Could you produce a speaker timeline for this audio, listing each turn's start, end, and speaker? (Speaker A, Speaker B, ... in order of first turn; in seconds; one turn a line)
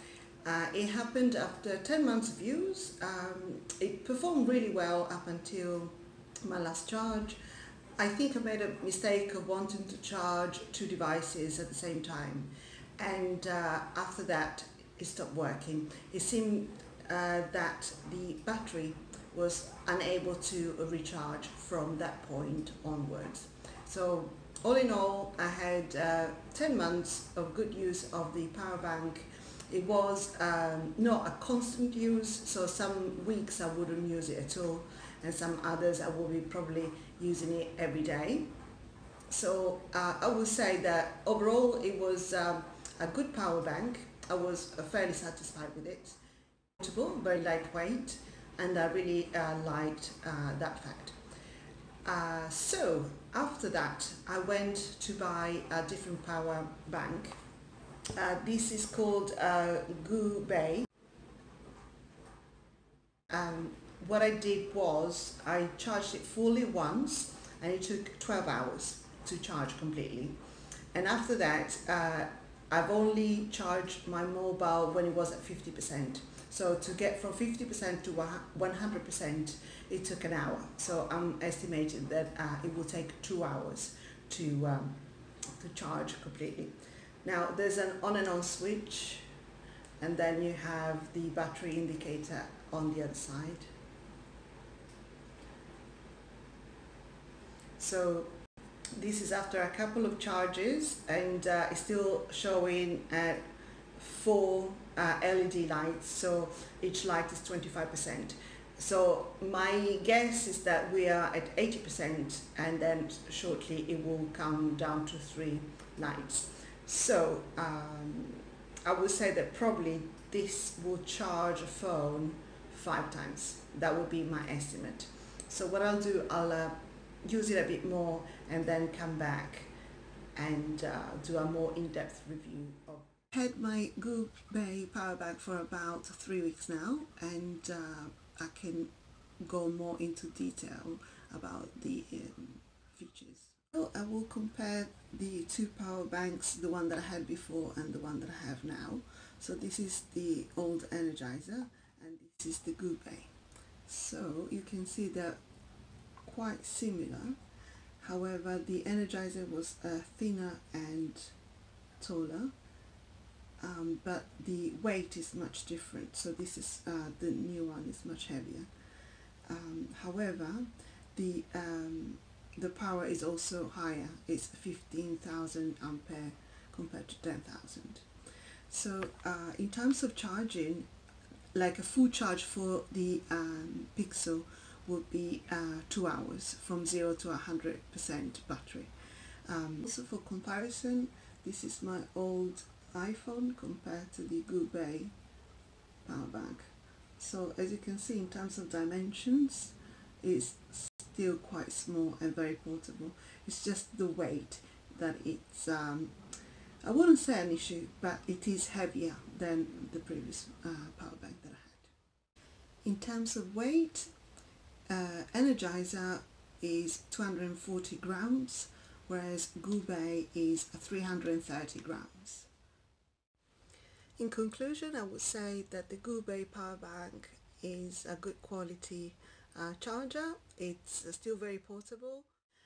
Speaker A: 0.4-7.4
Speaker A: 8.0-38.5
Speaker A: 39.3-46.2
Speaker A: 46.8-51.2
Speaker A: 52.0-57.4
Speaker A: 58.1-60.9
Speaker A: 63.3-70.4
Speaker A: 70.9-85.0
Speaker A: 85.5-89.3
Speaker A: 90.0-93.7
Speaker A: 97.8-98.3
Speaker A: 99.0-129.7
Speaker A: 130.3-153.3
Speaker A: 153.9-155.4
Speaker A: 156.2-157.4
Speaker A: 158.0-161.3
Speaker A: 162.0-162.5
Speaker A: 163.6-168.7
Speaker A: 169.5-178.1
Speaker A: 178.7-180.9
Speaker A: 181.5-188.9
Speaker A: 189.5-195.1
Speaker A: 196.1-206.2
Speaker A: 206.8-211.9
Speaker A: 212.8-214.1
Speaker A: 214.9-222.5
Speaker A: 224.2-232.3